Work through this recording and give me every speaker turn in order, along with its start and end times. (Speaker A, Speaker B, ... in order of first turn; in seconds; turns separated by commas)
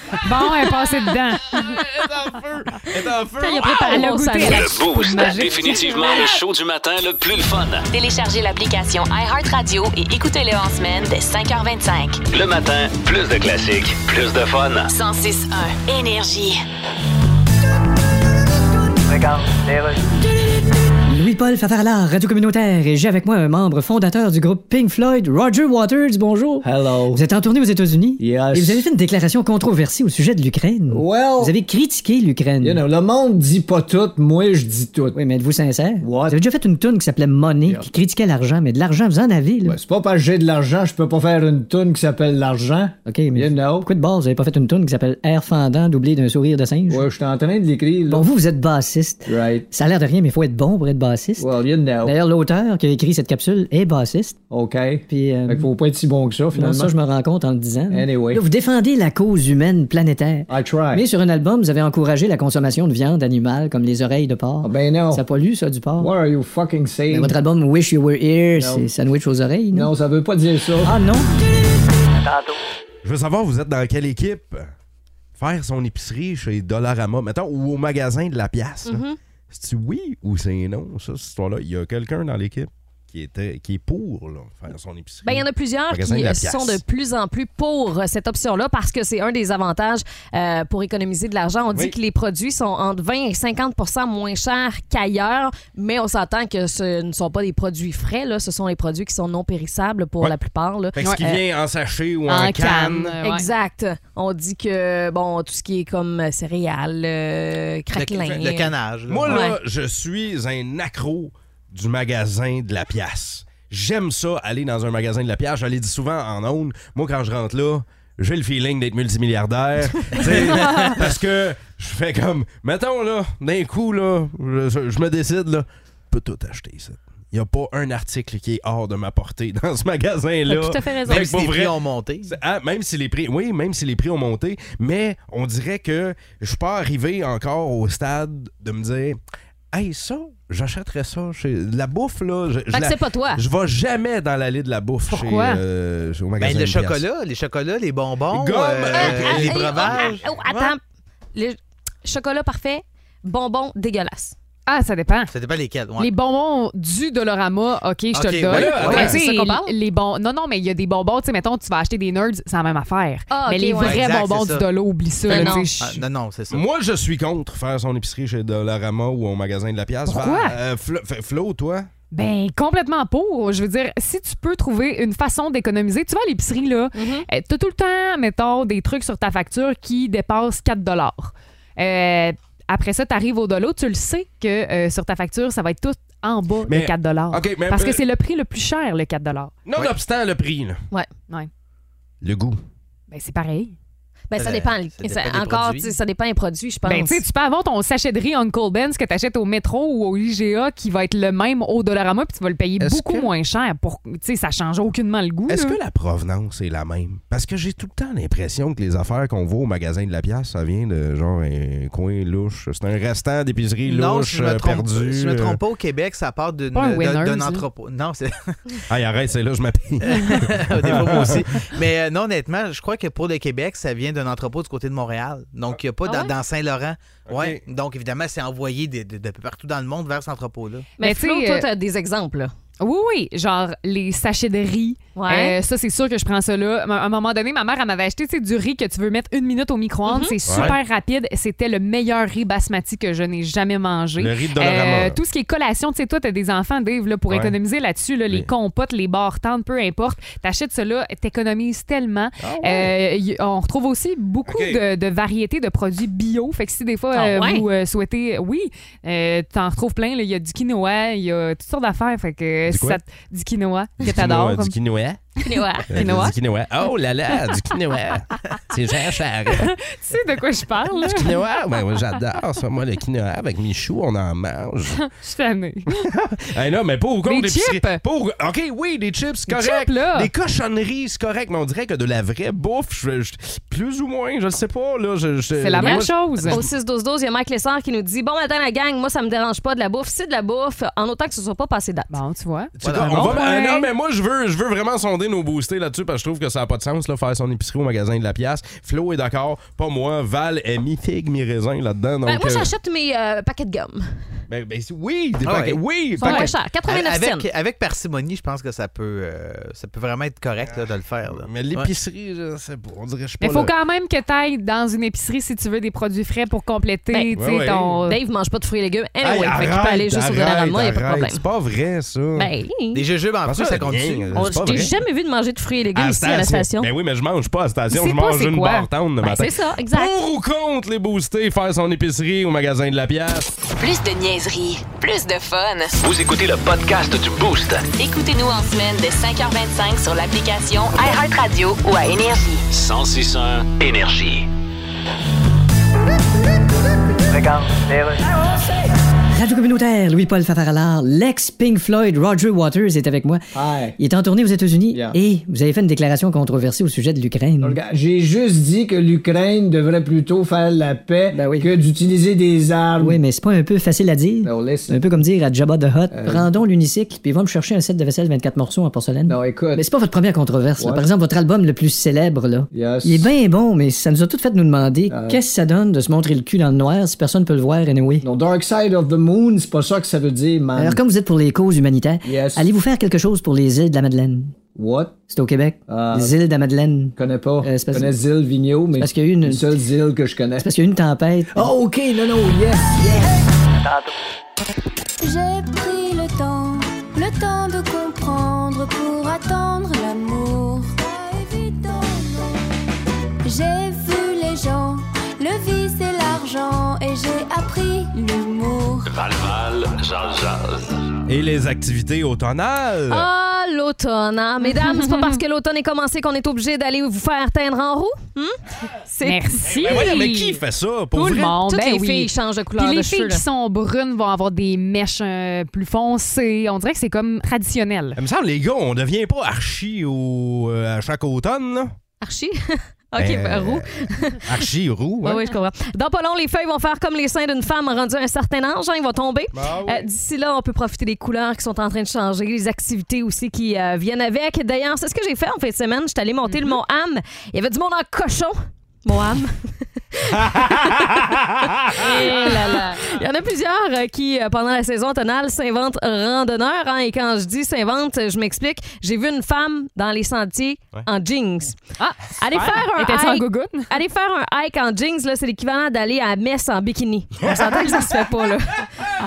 Speaker A: 0.2-1.6, Speaker B: 0.4-0.7, Speaker B: 1.5-4.0, Speaker C: 3.4-4.8, Speaker A: 3.7-6.3, Speaker D: 4.4-7.9, Speaker C: 5.6-6.3, Speaker E: 7.9-12.2, Speaker D: 12.3-14.9, Speaker E: 14.9-16.6, Speaker F: 21.1-32.8, Speaker G: 26.6-27.2, Speaker G: 28.2-28.9, Speaker G: 30.9-31.5, Speaker G: 32.6-35.2, Speaker F: 35.1-39.8, Speaker G: 36.0-36.4, Speaker G: 39.7-43.8, Speaker F: 43.1-47.0, Speaker G: 46.9-48.2, Speaker F: 48.1-51.5, Speaker G: 49.3-49.7, Speaker G: 51.4-52.1, Speaker F: 52.0-54.4, Speaker G: 54.5-56.9, Speaker F: 55.1-55.7, Speaker F: 56.5-66.1, Speaker G: 57.9-58.4, Speaker G: 60.5-61.0, Speaker G: 64.6-65.2, Speaker G: 66.0-67.3, Speaker F: 67.1-69.9, Speaker G: 68.6-68.9, Speaker G: 69.7-71.0, Speaker F: 70.8-71.3, Speaker B: 73.0-74.7, Speaker B: 75.4-86.8, Speaker C: 78.9-79.2, Speaker C: 85.2-101.4, Speaker B: 101.0-103.2, Speaker A: 101.0-101.3, Speaker A: 102.3-103.5, Speaker C: 103.2-108.7, Speaker H: 107.9-109.4, Speaker B: 109.1-139.2, Speaker C: 109.3-109.6, Speaker A: 120.6-120.9, Speaker C: 130.5-131.2, Speaker H: 131.1-132.3, Speaker B: 139.7-147.1, Speaker C: 142.7-143.4, Speaker A: 145.1-145.6, Speaker H: 146.4-150.7, Speaker B: 148.3-150.2, Speaker C: 148.9-150.8, Speaker C: 151.3-154.3, Speaker A: 154.7-155.3, Speaker H: 155.3-156.1, Speaker A: 156.0-166.0, Speaker H: 158.1-159.1, Speaker B: 158.5-159.2, Speaker C: 158.8-159.7, Speaker C: 163.3-164.1, Speaker H: 163.8-164.7, Speaker C: 165.3-165.7, Speaker H: 165.3-166.7, Speaker B: 166.5-171.9, Speaker A: 170.1-170.6, Speaker A: 172.1-189.6, Speaker C: 176.9-177.3, Speaker B: 186.7-188.0, Speaker B: 189.7-190.8, Speaker B: 192.2-192.6, Speaker A: 193.1-193.7, Speaker C: 194.3-197.2, Speaker H: 194.4-196.0, Speaker A: 196.8-205.8, Speaker B: 202.8-203.3, Speaker B: 205.5-215.6, Speaker H: 213.9-218.8, Speaker A: 216.7-217.7, Speaker B: 218.9-221.5, Speaker H: 220.0-230.9, Speaker C: 226.1-226.3, Speaker B: 227.3-227.6, Speaker A: 231.0-231.7, Speaker C: 231.0-232.5, Speaker A: 232.8-264.8, Speaker C: 235.2-235.6, Speaker C: 240.1-240.7, Speaker B: 240.5-240.8, Speaker B: 244.2-245.2, Speaker B: 247.3-247.6, Speaker B: 252.4-252.9, Speaker B: 254.5-254.8, Speaker C: 257.1-257.6, Speaker B: 262.7-263.0, Speaker B: 264.0-265.2, Speaker C: 265.4-265.9, Speaker A: 265.9-266.4, Speaker B: 265.9-269.7, Speaker A: 269.6-271.4, Speaker B: 271.0-275.0, Speaker A: 275.0-276.0, Speaker B: 276.0-286.6, Speaker A: 277.2-278.0, Speaker A: 279.5-280.3, Speaker A: 285.6-286.6, Speaker C: 285.8-292.2, Speaker A: 292.1-293.9, Speaker B: 292.8-302.7, Speaker H: 292.8-293.4, Speaker C: 302.3-304.4, Speaker B: 304.5-306.5, Speaker H: 305.4-305.8, Speaker C: 306.2-307.5, Speaker A: 306.2-306.5, Speaker H: 306.9-311.9, Speaker B: 310.7-313.7, Speaker A: 313.4-318.2, Speaker B: 317.4-318.0, Speaker C: 318.1-321.4, Speaker B: 319.2-322.5, Speaker C: 322.4-323.1, Speaker H: 322.9-324.3, Speaker B: 323.4-325.0, Speaker C: 324.4-326.9, Speaker B: 325.9-333.5, Speaker A: 327.9-328.9, Speaker C: 329.2-330.1, Speaker E: 333.8-336.0, Speaker D: 336.0-337.9, Speaker E: 337.9-342.6, Speaker D: 342.7-344.5, Speaker F: 349.3-353.4, Speaker G: 353.6-354.0, Speaker F: 354.0-357.8, Speaker G: 354.9-355.2, Speaker G: 357.6-363.2, Speaker F: 361.3-361.7, Speaker F: 363.0-378.3, Speaker G: 364.4-365.0, Speaker G: 366.1-366.5, Speaker G: 369.3-369.8, Speaker G: 370.8-371.0, Speaker G: 372.7-373.3, Speaker G: 375.1-375.4, Speaker G: 378.2-381.0, Speaker F: 380.8-384.6, Speaker G: 382.2-382.7, Speaker G: 384.8-385.2, Speaker F: 385.3-388.1, Speaker G: 385.9-386.3, Speaker G: 387.2-390.6, Speaker F: 389.0-389.7, Speaker F: 390.6-391.7, Speaker G: 391.5-393.3, Speaker I: 395.2-402.6, Speaker I: 403.4-409.1, Speaker D: 409.1-411.1, Speaker B: 411.3-413.3, Speaker C: 413.1-420.1, Speaker A: 414.6-415.4, Speaker A: 419.2-420.6, Speaker B: 419.6-421.5, Speaker A: 421.1-428.2, Speaker C: 421.6-423.4, Speaker B: 428.2-431.9, Speaker C: 432.2-434.5, Speaker B: 433.2-435.4, Speaker C: 435.2-451.3, Speaker B: 439.5-440.1, Speaker A: 446.5-446.8, Speaker C: 451.9-461.8, Speaker A: 452.0-453.1, Speaker A: 462.0-463.9, Speaker C: 462.3-468.9